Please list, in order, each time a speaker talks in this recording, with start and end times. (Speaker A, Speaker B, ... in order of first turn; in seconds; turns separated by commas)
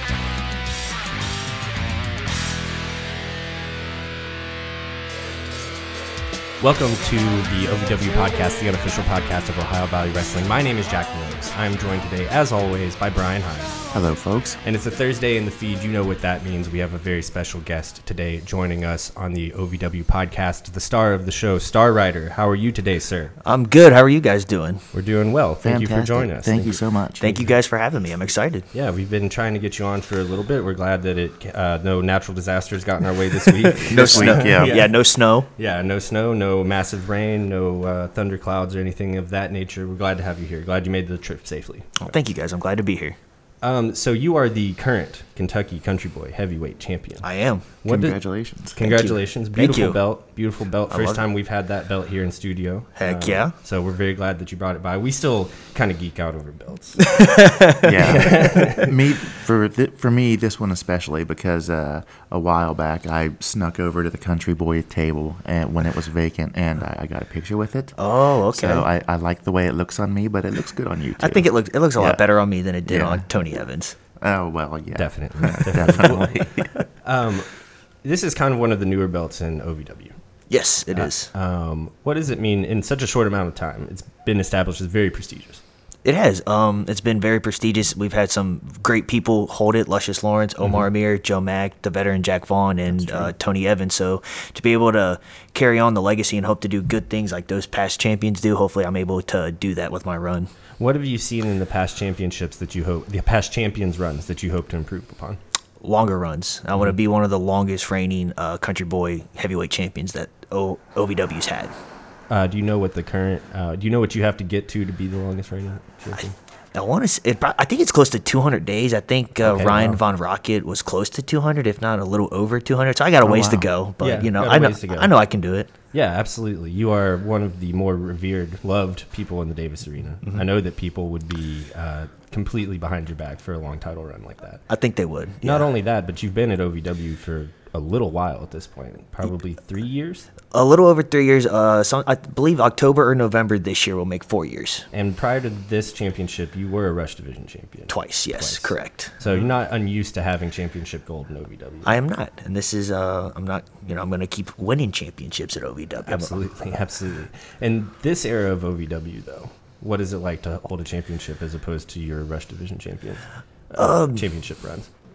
Speaker A: 6.6-13.8, Speaker B: 13.9-14.6, Speaker A: 14.6-23.4, Speaker C: 23.4-24.9, Speaker A: 24.9-26.8, Speaker B: 25.6-27.4, Speaker C: 27.2-28.7, Speaker A: 28.7-35.0, Speaker C: 33.8-35.5, Speaker B: 33.9-34.8, Speaker A: 35.5-42.1, Speaker C: 42.0-43.1, Speaker A: 43.6-57.1, Speaker C: 47.2-47.7, Speaker B: 47.9-48.7, Speaker C: 48.8-50.0, Speaker C: 50.9-51.2, Speaker C: 53.0-53.5, Speaker C: 57.1-57.9, Speaker B: 57.8-68.0, Speaker A: 58.1-58.9, Speaker C: 68.0-68.9, Speaker B: 68.5-72.2, Speaker C: 71.2-74.0, Speaker B: 72.8-73.3, Speaker B: 74.2-76.7, Speaker A: 74.9-85.6, Speaker C: 80.5-81.3, Speaker C: 86.0-100.5, Speaker A: 90.6-90.8, Speaker B: 93.0-93.3, Speaker A: 100.8-105.4, Speaker C: 105.8-111.7, Speaker A: 112.3-116.3, Speaker C: 116.7-125.7, Speaker A: 119.4-120.0, Speaker B: 123.2-123.7, Speaker A: 124.0-125.1, Speaker A: 125.9-134.7, Speaker C: 134.7-135.7, Speaker A: 135.4-140.3, Speaker C: 140.5-144.9, Speaker A: 144.9-151.9, Speaker C: 147.9-149.1, Speaker C: 151.8-156.4, Speaker A: 156.1-164.9, Speaker C: 163.8-164.3